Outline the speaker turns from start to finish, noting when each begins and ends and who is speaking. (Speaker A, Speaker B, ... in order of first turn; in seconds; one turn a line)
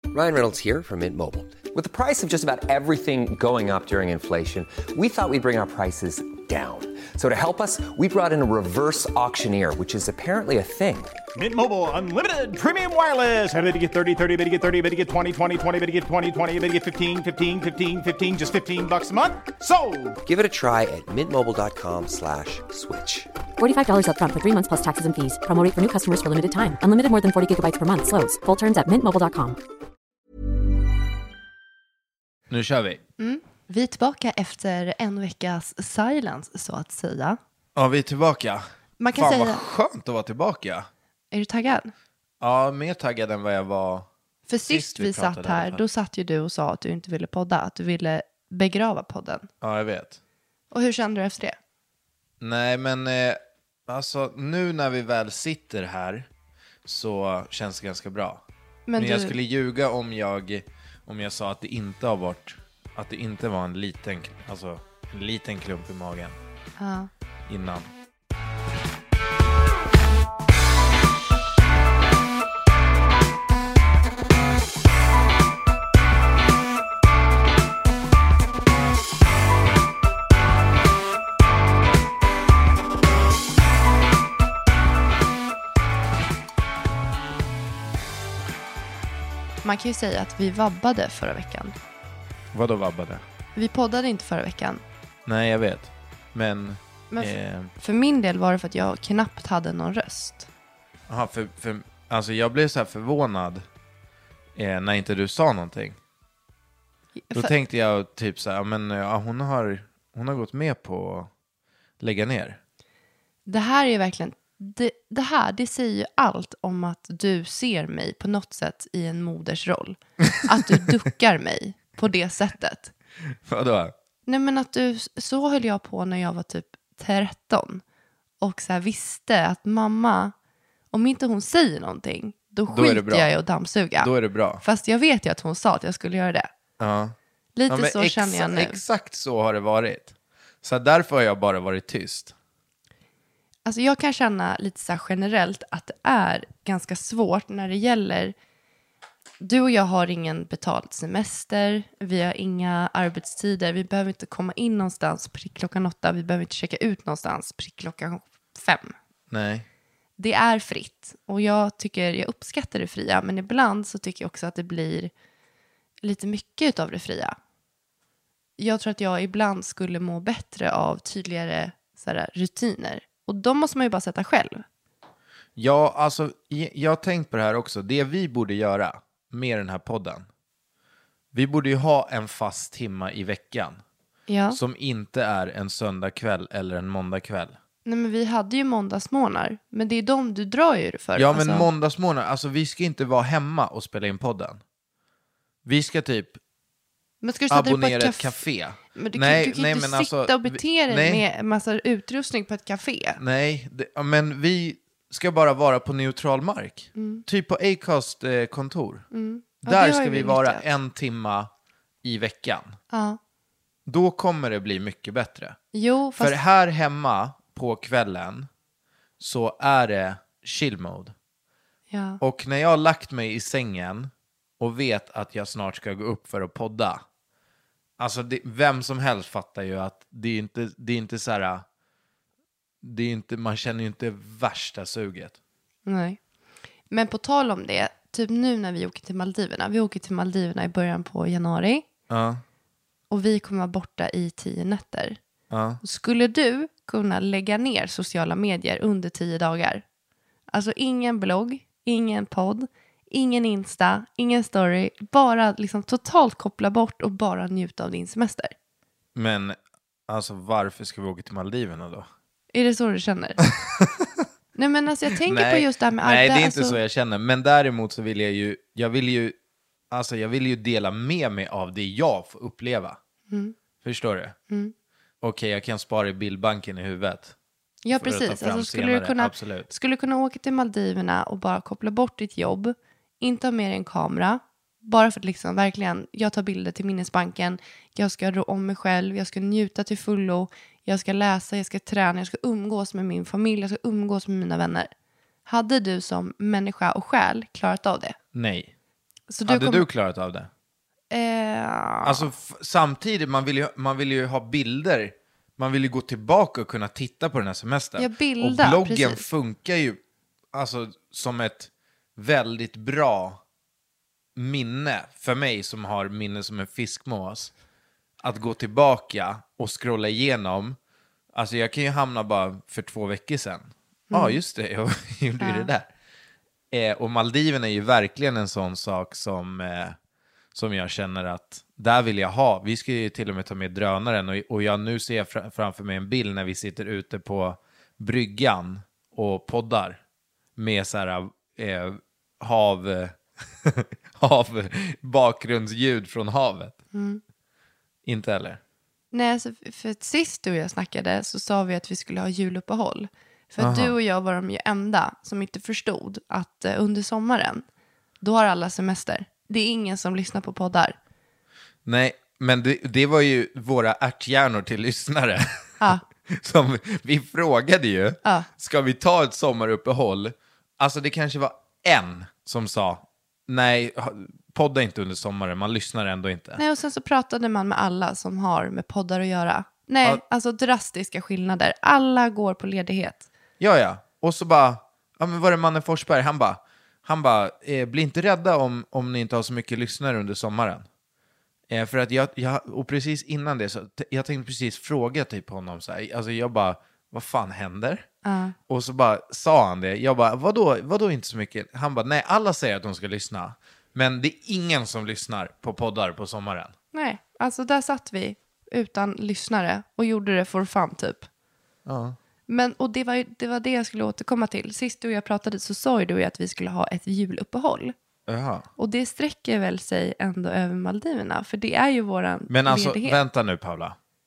Speaker A: 0.1-11.1
Speaker B: 11.3-20.2
Speaker A: 20.2-23.3
Speaker C: 23.6-29.6
Speaker D: 32.5-33.0
Speaker E: 33.2-37.4
Speaker D: 37.7-40.9
Speaker E: 39.0-39.6
Speaker E: 41.3-41.9
Speaker D: 42.4-44.1
Speaker E: 44.5-49.5
Speaker D: 44.7-45.8
Speaker D: 49.6-50.2
Speaker E: 50.7-51.6
Speaker D: 52.4-56.3
Speaker D: 56.8-58.4
Speaker E: 58.9-59.4
Speaker D: 59.0-66.4
Speaker E: 66.8-67.1
Speaker D: 67.5-67.9
Speaker E: 89.6-91.8
Speaker D: 92.5-93.2
Speaker E: 93.5-94.8
Speaker D: 95.2-97.7
Speaker E: 97.1-100.5
Speaker D: 101.1-103.6
Speaker D: 104.5-106.0
Speaker E: 107.2-107.5
Speaker D: 107.3-111.3
Speaker D: 112.0-112.6
Speaker E: 113.5-122.9
Speaker D: 120.3-120.8
Speaker D: 123.3-123.9
Speaker E: 124.3-127.8
Speaker E: 128.4-130.3
Speaker E: 130.9-134.1
Speaker D: 132.7-133.3
Speaker D: 134.0-134.6
Speaker E: 134.6-136.5
Speaker D: 136.8-137.1
Speaker E: 137.6-138.8
Speaker D: 137.7-142.3
Speaker E: 143.6-148.3
Speaker E: 149.4-158.9
Speaker D: 159.3-159.7
Speaker E: 160.2-165.1
Speaker E: 166.0-167.3
Speaker E: 168.6-174.6
Speaker D: 175.6-180.3
Speaker D: 181.3-183.8
Speaker E: 184.3-184.6
Speaker D: 184.5-187.6
Speaker E: 187.8-191.7
Speaker D: 191.2-194.6
Speaker D: 195.6-196.4
Speaker E: 197.2-198.4
Speaker D: 197.5-201.2
Speaker E: 198.9-203.2
Speaker D: 203.2-209.1
Speaker E: 206.9-207.2
Speaker E: 209.1-210.6
Speaker D: 209.6-211.5
Speaker D: 212.0-212.8
Speaker E: 212.9-213.2
Speaker D: 213.8-215.6
Speaker E: 215.7-216.4
Speaker D: 216.2-218.5
Speaker D: 219.2-221.1
Speaker E: 221.9-222.2
Speaker D: 222.2-227.0
Speaker D: 228.0-231.6
Speaker D: 232.8-235.3
Speaker E: 235.8-236.2
Speaker E: 236.9-241.8
Speaker D: 242.1-242.4
Speaker E: 243.1-245.2
Speaker D: 245.5-245.8
Speaker E: 245.8-249.8
Speaker E: 250.5-258.5
Speaker D: 259.1-262.1
Speaker E: 262.5-263.4
Speaker D: 263.4-264.2
Speaker E: 264.6-266.8
Speaker D: 265.1-269.4
Speaker D: 269.9-273.0
Speaker E: 273.3-273.5
Speaker D: 273.8-274.4
Speaker D: 275.2-277.3
Speaker E: 277.8-294.9
Speaker D: 277.9-279.7
Speaker E: 295.4-298.1
Speaker D: 298.3-298.7
Speaker E: 299.3-299.9
Speaker D: 299.4-300.5
Speaker E: 301.1-302.3
Speaker D: 302.0-310.0
Speaker E: 308.0-309.3
Speaker D: 310.5-313.4
Speaker D: 314.3-317.5
Speaker D: 318.2-320.8
Speaker D: 321.3-325.9
Speaker E: 324.1-324.4
Speaker E: 325.4-325.7
Speaker D: 326.7-330.0
Speaker D: 330.5-340.0
Speaker D: 340.6-346.8
Speaker E: 346.9-347.2
Speaker D: 348.0-348.6
Speaker E: 349.1-357.6
Speaker D: 353.6-353.9
Speaker E: 358.2-361.0
Speaker D: 361.8-376.6
Speaker E: 368.2-368.5
Speaker E: 376.6-383.3
Speaker D: 383.6-390.9
Speaker D: 391.7-398.1
Speaker E: 398.2-398.6
Speaker D: 398.7-406.7
Speaker E: 406.9-411.3
Speaker D: 411.9-412.2
Speaker E: 412.5-417.9
Speaker D: 418.3-418.7
Speaker E: 418.8-423.2
Speaker D: 422.5-423.9